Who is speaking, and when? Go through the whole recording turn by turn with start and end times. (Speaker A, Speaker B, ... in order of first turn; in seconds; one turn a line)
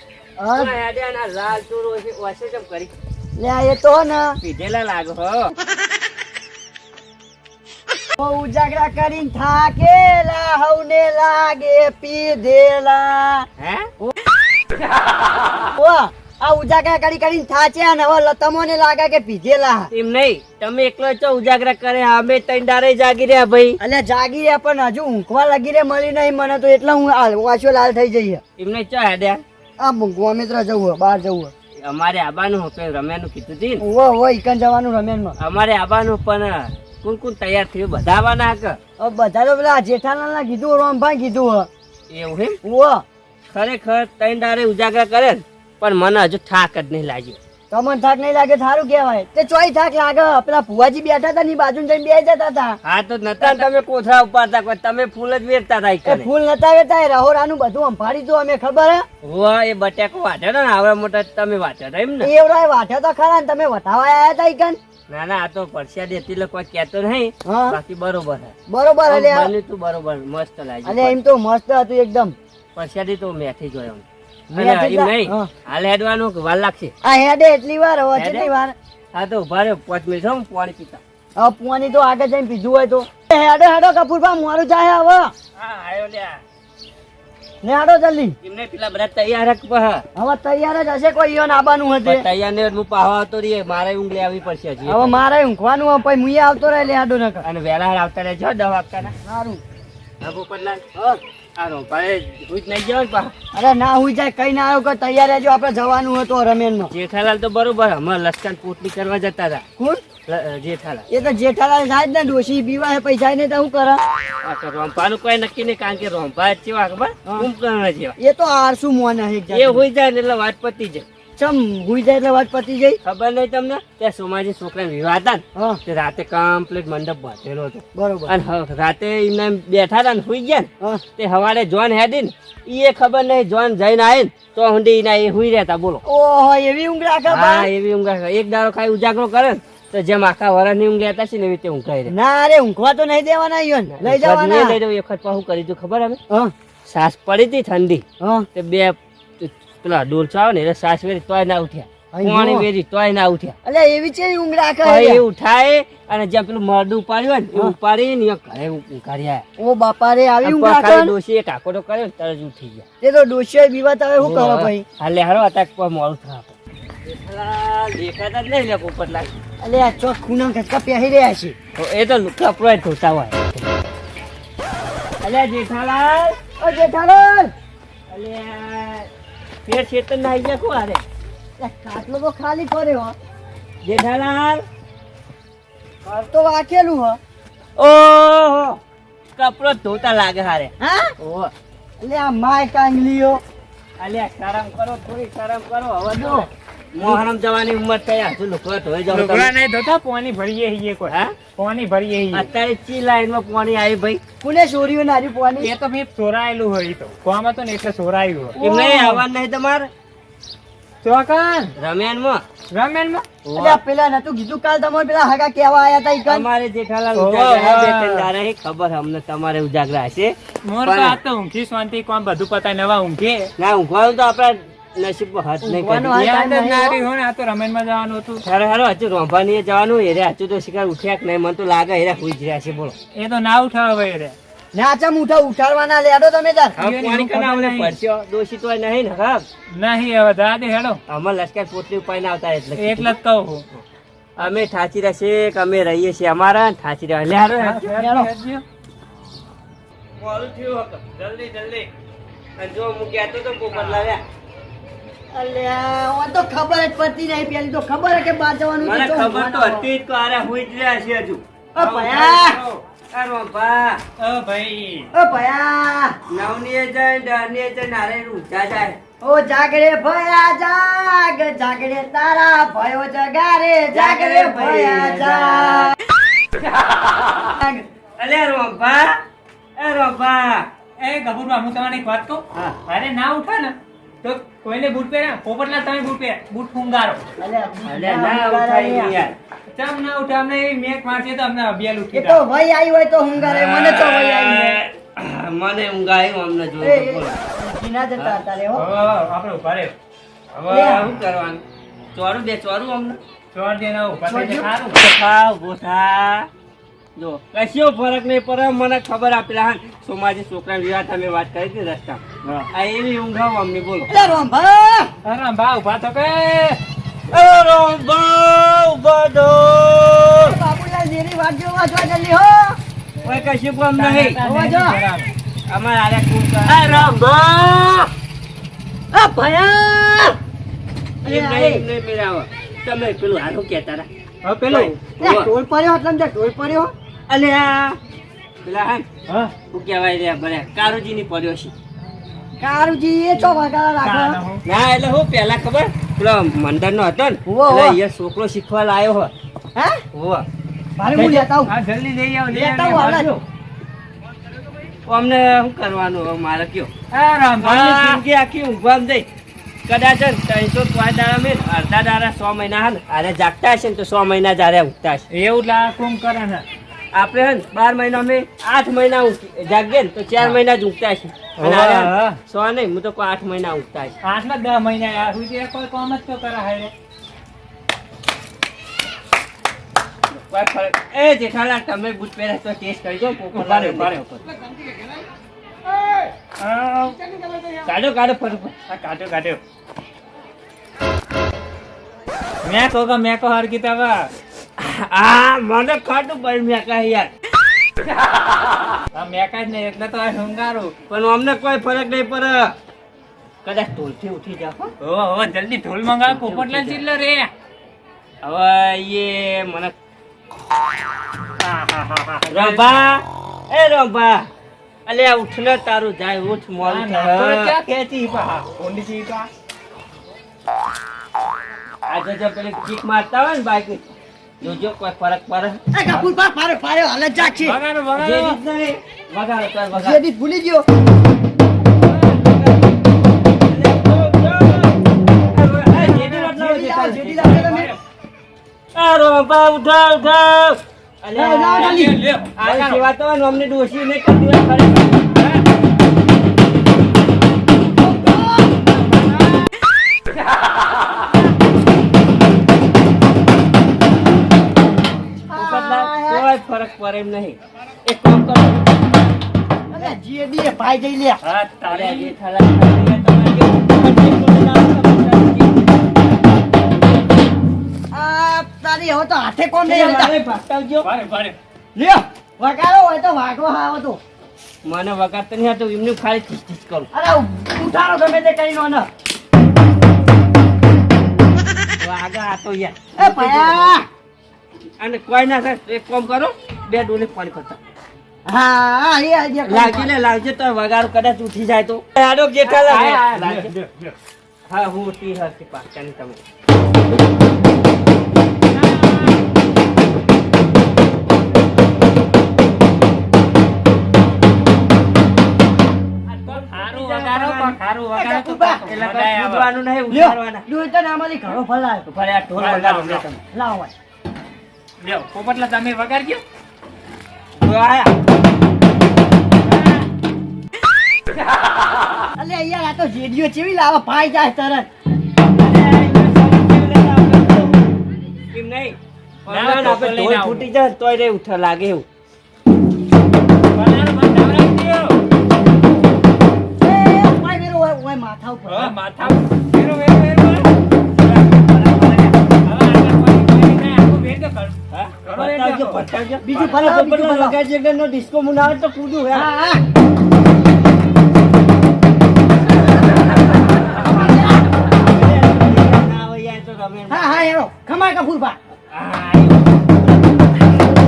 Speaker A: 0.4-0.8
Speaker B: 0.6-2.9
Speaker A: 3.4-4.4
Speaker B: 4.4-5.5
Speaker A: 8.2-13.5
Speaker B: 13.6-13.9
Speaker A: 15.8-19.9
Speaker B: 19.9-23.8
Speaker A: 23.8-28.4
Speaker B: 28.6-29.4
Speaker A: 29.8-31.5
Speaker B: 31.8-33.8
Speaker A: 33.8-35.4
Speaker B: 35.4-38.8
Speaker A: 39.0-41.7
Speaker B: 42.1-42.6
Speaker A: 42.6-43.0
Speaker B: 43.5-47.4
Speaker A: 47.7-52.8
Speaker B: 52.8-56.3
Speaker A: 53.4-53.7
Speaker A: 56.1-59.1
Speaker B: 59.2-62.3
Speaker A: 62.2-64.8
Speaker B: 65.1-68.5
Speaker A: 67.5-67.8
Speaker A: 68.7-69.5
Speaker B: 69.1-71.2
Speaker A: 70.8-72.3
Speaker B: 72.8-76.9
Speaker A: 74.5-75.5
Speaker A: 77.0-78.8
Speaker B: 78.2-78.5
Speaker B: 79.1-81.0
Speaker A: 81.4-85.3
Speaker B: 85.6-86.4
Speaker A: 87.6-88.4
Speaker B: 88.4-90.0
Speaker A: 90.2-92.3
Speaker B: 92.0-95.2
Speaker A: 94.9-97.4
Speaker B: 97.4-99.2
Speaker A: 99.2-99.6
Speaker B: 100.2-100.8
Speaker B: 101.6-103.3
Speaker A: 103.5-106.9
Speaker B: 106.9-109.7
Speaker B: 110.3-111.1
Speaker A: 111.1-114.0
Speaker B: 114.4-118.2
Speaker A: 118.2-119.8
Speaker B: 119.5-121.0
Speaker A: 121.4-123.0
Speaker B: 123.0-136.0
Speaker A: 128.0-128.3
Speaker A: 136.1-137.7
Speaker B: 137.3-142.1
Speaker A: 142.1-144.8
Speaker B: 144.0-146.2
Speaker B: 146.9-148.0
Speaker A: 148.2-148.5
Speaker B: 148.6-153.6
Speaker A: 152.1-152.7
Speaker A: 153.7-155.2
Speaker B: 154.8-159.4
Speaker A: 159.6-161.1
Speaker B: 160.4-162.9
Speaker A: 163.0-164.8
Speaker B: 164.2-166.5
Speaker B: 167.1-169.3
Speaker A: 169.6-171.6
Speaker B: 171.8-173.7
Speaker B: 175.2-176.4
Speaker A: 176.6-177.5
Speaker B: 178.1-179.1
Speaker B: 179.7-181.0
Speaker A: 181.6-183.2
Speaker B: 183.8-184.7
Speaker A: 186.1-187.2
Speaker B: 187.8-188.8
Speaker B: 189.4-191.5
Speaker A: 190.8-191.1
Speaker A: 192.0-193.4
Speaker B: 194.0-199.5
Speaker A: 196.1-196.5
Speaker C: 199.1-202.5
Speaker B: 201.1-201.4
Speaker B: 202.3-204.2
Speaker A: 204.4-205.7
Speaker C: 205.6-208.6
Speaker A: 208.6-209.2
Speaker B: 208.6-209.9
Speaker C: 211.0-211.8
Speaker B: 211.8-212.4
Speaker C: 212.7-213.3
Speaker B: 213.4-213.8
Speaker A: 213.6-216.4
Speaker B: 216.3-221.2
Speaker C: 217.1-218.3
Speaker C: 220.7-223.5
Speaker B: 223.6-226.2
Speaker A: 225.6-227.0
Speaker C: 226.1-228.4
Speaker B: 228.4-232.9
Speaker C: 233.1-234.4
Speaker A: 234.7-236.8
Speaker B: 236.8-239.4
Speaker C: 236.8-238.0
Speaker C: 239.8-241.0
Speaker B: 241.1-243.2
Speaker C: 242.8-243.7
Speaker B: 244.4-248.0
Speaker C: 247.6-248.6
Speaker A: 247.9-248.3
Speaker B: 250.2-251.9
Speaker B: 252.6-254.2
Speaker C: 253.7-254.1
Speaker A: 255.3-259.9
Speaker B: 258.8-264.0
Speaker A: 261.8-262.6
Speaker C: 264.2-265.1
Speaker A: 265.1-266.2
Speaker B: 266.3-269.0
Speaker A: 269.2-275.9
Speaker B: 273.9-275.9
Speaker A: 277.6-277.9
Speaker B: 278.2-279.2
Speaker B: 279.8-280.7
Speaker C: 281.0-287.2
Speaker A: 287.4-289.2
Speaker B: 287.9-289.4
Speaker C: 289.7-292.4
Speaker A: 292.1-294.8
Speaker B: 293.4-297.4
Speaker A: 296.8-298.9
Speaker C: 298.8-299.9
Speaker B: 300.6-301.6
Speaker A: 300.7-301.1
Speaker B: 302.1-303.2
Speaker C: 303.5-305.0
Speaker A: 304.2-304.7
Speaker B: 304.3-306.5
Speaker B: 307.2-314.3
Speaker A: 314.1-315.1
Speaker C: 315.2-316.8
Speaker B: 317.3-320.6
Speaker A: 320.4-322.8
Speaker B: 323.2-324.4
Speaker C: 323.9-325.3
Speaker A: 324.4-325.0
Speaker B: 325.7-328.1
Speaker C: 326.7-327.1
Speaker A: 329.1-330.4
Speaker B: 331.2-334.1
Speaker A: 331.2-331.8
Speaker C: 334.4-334.9
Speaker B: 334.7-335.5
Speaker A: 335.0-336.9
Speaker B: 337.3-338.0
Speaker B: 338.6-339.1
Speaker C: 339.3-339.5
Speaker B: 339.6-341.7
Speaker A: 342.6-344.4
Speaker C: 344.0-344.6
Speaker B: 344.7-349.3
Speaker A: 347.5-348.0
Speaker A: 349.8-350.0
Speaker B: 350.1-350.5
Speaker A: 351.0-351.7
Speaker B: 351.2-351.5
Speaker C: 351.6-353.2
Speaker B: 352.5-353.4
Speaker A: 352.5-353.3
Speaker B: 355.1-356.9
Speaker C: 357.1-358.2
Speaker B: 357.6-359.3
Speaker B: 359.9-365.2
Speaker C: 365.3-366.6
Speaker B: 367.1-374.1
Speaker C: 371.6-372.4
Speaker C: 374.2-376.9
Speaker B: 380.5-384.4
Speaker C: 383.5-384.2
Speaker C: 385.9-387.8
Speaker B: 387.8-388.8
Speaker C: 388.9-389.6
Speaker C: 392.6-394.3
Speaker B: 394.8-397.3
Speaker C: 399.1-400.9
Speaker B: 401.1-402.7
Speaker B: 403.6-404.9
Speaker C: 405.0-407.5
Speaker B: 406.3-407.0
Speaker B: 408.4-409.9
Speaker C: 411.6-413.0
Speaker B: 412.5-414.5
Speaker B: 415.1-417.8
Speaker C: 416.8-419.5
Speaker B: 422.1-424.1
Speaker B: 424.6-425.8
Speaker A: 425.9-427.8
Speaker C: 427.4-428.6
Speaker B: 428.1-430.2
Speaker A: 429.9-430.9
Speaker B: 432.0-432.9
Speaker B: 433.6-435.0
Speaker B: 435.5-437.6
Speaker C: 435.9-438.0
Speaker A: 436.3-437.9
Speaker B: 438.9-442.1
Speaker A: 441.3-442.1
Speaker C: 441.7-443.1
Speaker B: 442.6-445.5
Speaker A: 448.0-449.5
Speaker A: 455.5-456.5
Speaker B: 455.6-459.3
Speaker A: 459.9-461.4
Speaker C: 461.4-462.3
Speaker B: 461.9-466.1
Speaker A: 468.1-470.3
Speaker B: 469.9-471.1
Speaker C: 471.0-471.6
Speaker A: 471.9-474.2
Speaker B: 474.9-477.1
Speaker A: 477.1-479.1
Speaker B: 482.0-484.0
Speaker A: 483.2-484.1
Speaker B: 485.0-487.8
Speaker A: 488.5-490.1
Speaker B: 489.6-493.7
Speaker C: 492.6-494.1
Speaker B: 494.7-496.4
Speaker C: 498.7-499.4
Speaker B: 506.3-507.8
Speaker C: 506.4-509.7
Speaker A: 508.2-508.9
Speaker B: 508.9-510.6
Speaker A: 510.1-512.1
Speaker B: 512.1-513.4
Speaker C: 512.6-513.3
Speaker A: 513.5-513.9
Speaker C: 515.0-516.4
Speaker B: 517.6-518.1
Speaker C: 519.7-520.0
Speaker A: 522.4-524.9
Speaker B: 525.5-527.8
Speaker B: 528.5-532.1
Speaker C: 529.5-530.7
Speaker C: 533.7-535.2
Speaker A: 536.8-538.9
Speaker C: 538.7-540.7
Speaker B: 541.2-542.4
Speaker C: 542.6-546.0
Speaker B: 544.9-549.5
Speaker A: 546.4-547.6
Speaker A: 549.3-549.8
Speaker A: 554.0-554.5
Speaker B: 554.9-557.4
Speaker A: 557.1-558.6
Speaker B: 558.9-559.9